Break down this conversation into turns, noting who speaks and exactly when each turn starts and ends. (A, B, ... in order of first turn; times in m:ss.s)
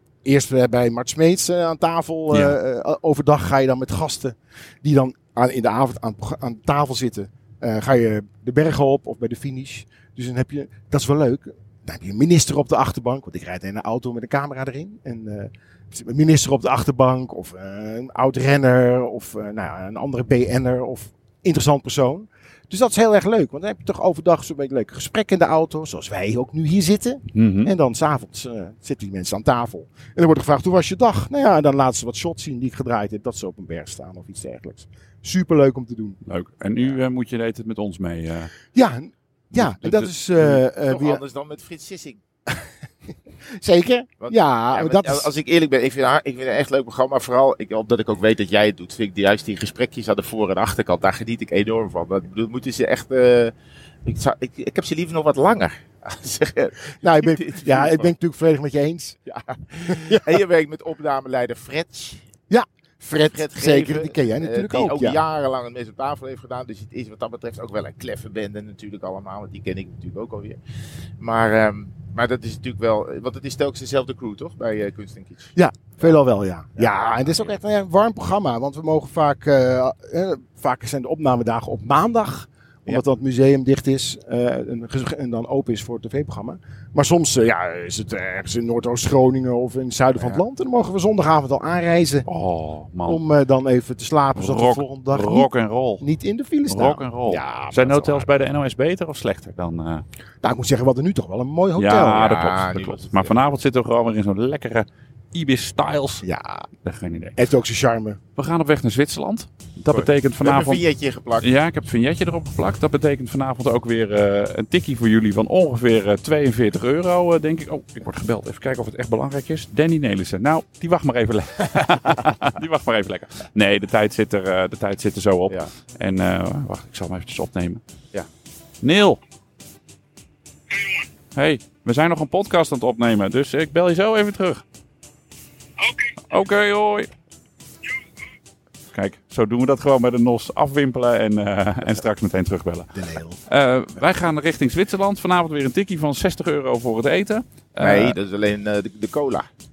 0:00.2-0:36.2 A
0:02.3-0:02.6 B
0:27.3-0:27.7 B
0:36.2-0:38.5 B
0:38.7-0:41.2 A
0:39.5-0:40.6 B
0:40.9-0:42.2 C
0:43.6-0:45.3 A
0:44.2-0:53.5 C
0:54.0-0:58.1 C
0:57.0-0:59.2 A
0:59.3-1:02.2 C
0:59.9-1:00.4 A
1:02.5-1:05.2 A
1:03.2-1:10.6 C
1:11.2-1:16.2 C
1:15.5-1:32.2 A
1:16.8-1:17.6 C
1:30.2-1:30.4 C
1:32.3-1:33.2 B
1:33.0-1:38.3 A
1:34.3-1:36.1 B
1:36.7-1:40.0 B
1:40.4-1:42.2 A
1:41.8-1:46.2 B
1:42.1-1:43.4 C
1:46.2-1:46.7 A
1:46.8-1:47.4 B
1:47.4-1:48.2 A
1:48.4-1:50.8 B
1:49.9-1:51.5 C
1:51.4-2:07.8 B
2:08.8-2:09.2 B
2:10.8-2:14.6 B
2:16.2-2:17.1 B
2:18.9-2:22.9 B
2:22.9-2:23.4 A
2:23.5-2:28.1 B
2:27.8-2:29.5 C